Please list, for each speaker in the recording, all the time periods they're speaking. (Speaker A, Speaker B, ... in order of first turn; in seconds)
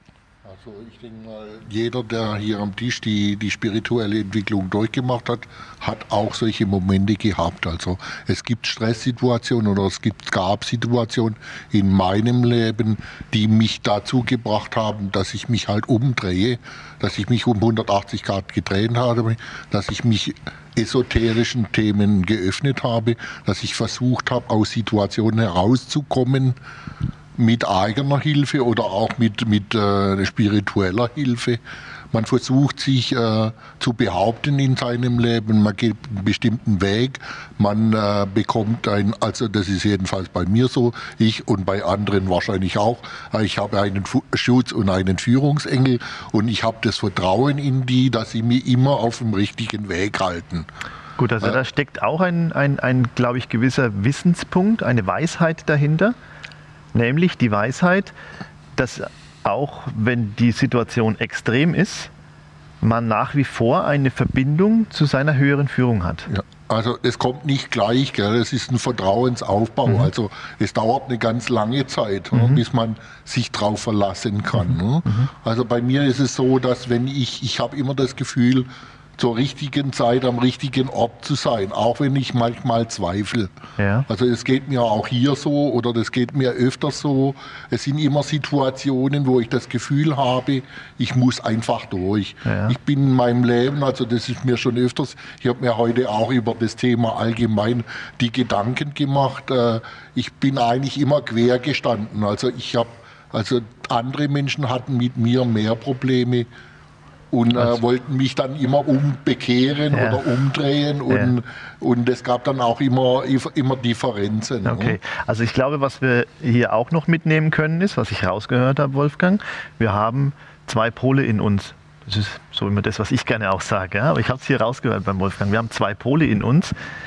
Speaker A: 0.4-26.6, 27.4-31.6, 32.1-50.7, 66.3-83.5, 84.1-106.5, 107.3-115.0
Speaker B: 51.2-56.1, 56.9-58.1, 58.7-62.1, 62.8-66.3, 72.3-72.6, 74.6-75.3, 83.8-84.1, 92.4-92.8, 107.5-107.8, 109.9-110.3, 114.7-126.8